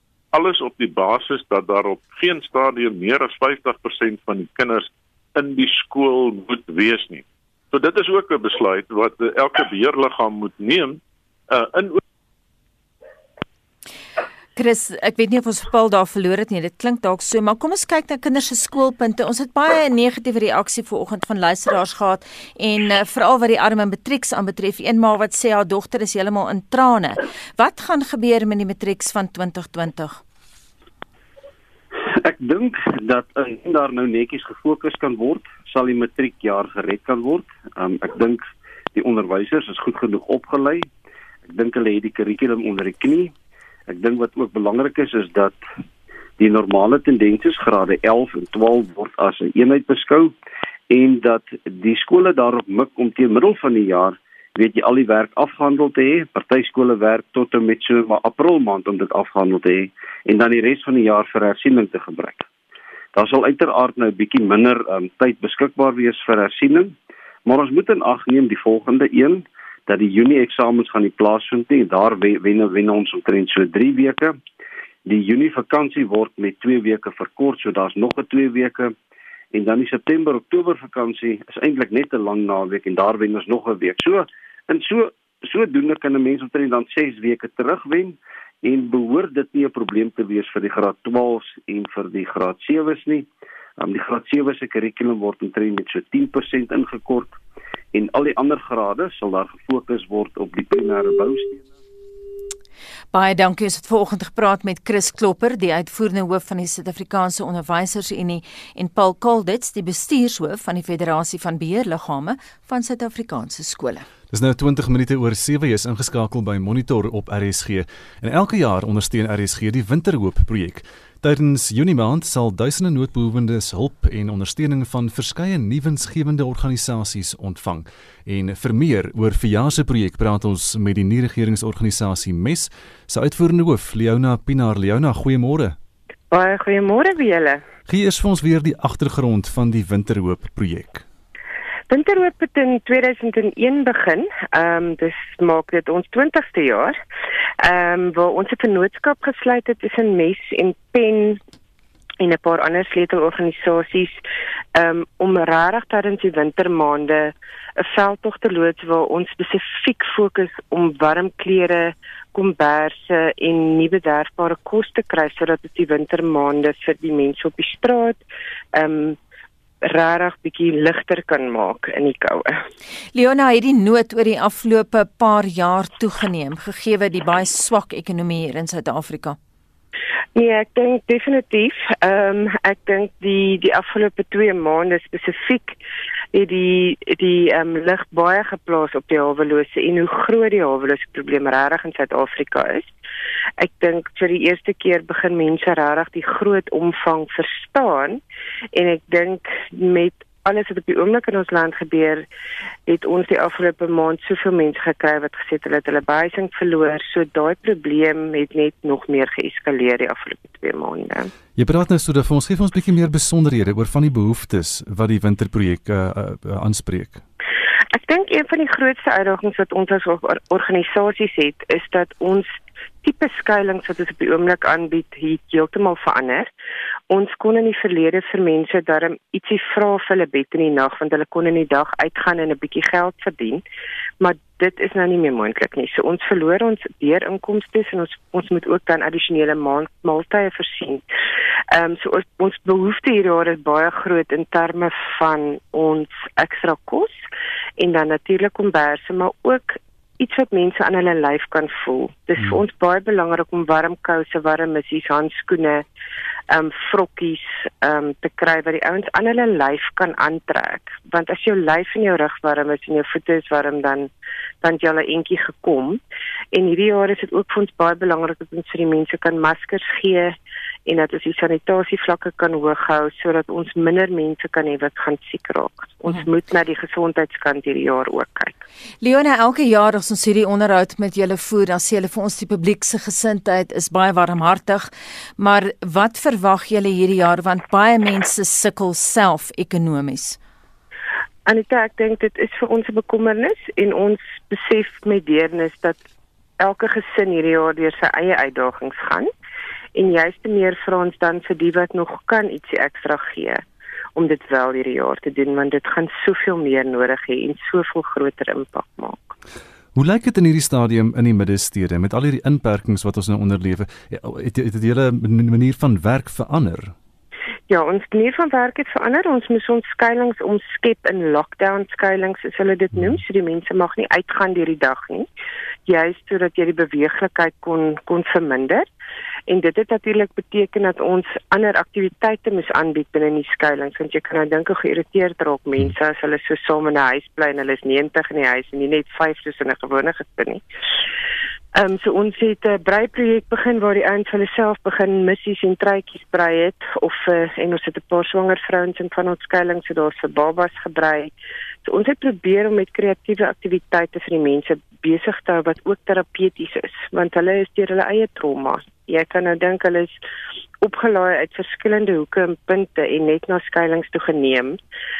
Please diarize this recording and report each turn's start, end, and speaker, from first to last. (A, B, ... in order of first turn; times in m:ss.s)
0:00.3-0:12.0 A
0:14.6-0:30.2 B
0:32.1-0:38.4 C
0:38.9-0:40.9 C
0:41.4-0:43.3 C
0:43.9-0:45.6 C
0:46.4-0:50.3 C
0:50.9-1:02.5 C
1:03.1-1:06.9 C
1:07.4-1:14.4 C
1:15.0-1:18.9 C
1:19.5-1:33.3 C
1:33.8-1:37.4 C
1:37.9-1:41.6 C
1:43.1-1:54.1 B
1:54.3-2:15.8 D
2:16.3-2:17.6 E
2:17.9-2:21.0 D
2:21.9-2:27.0 E
2:27.6-2:31.4 E
2:32.2-2:34.2 E
2:34.7-2:48.2 E
2:48.7-2:49.2 E
2:49.8-2:52.6 E
2:53.1-2:59.4 B
3:00.4-3:05.8 E
3:06.3-3:12.9 E
3:13.6-3:18.2 E
3:18.7-3:22.2 E
3:22.9-3:31.3 E
3:31.6-3:37.2 D
3:37.9-3:46.5 E
3:47.1-3:53.6 E
3:54.2-4:01.0 E
4:01.7-4:07.2 E
4:07.8-4:15.8 E
4:16.5-4:24.1 E
4:24.6-4:26.0 E
4:26.5-4:30.3 E
4:30.9-4:38.6 E
4:39.0-4:50.4 B
4:51.4-4:56.0 E
4:56.6-4:59.3 E
5:00.0-5:03.6 E
5:04.2-5:09.3 E
5:09.9-5:16.9 D
5:17.7-5:25.3 E
5:25.9-5:28.8 E
5:29.5-5:40.6 E
5:41.7-5:51.3 E
5:51.8-6:00.2 E
6:00.8-6:04.8 E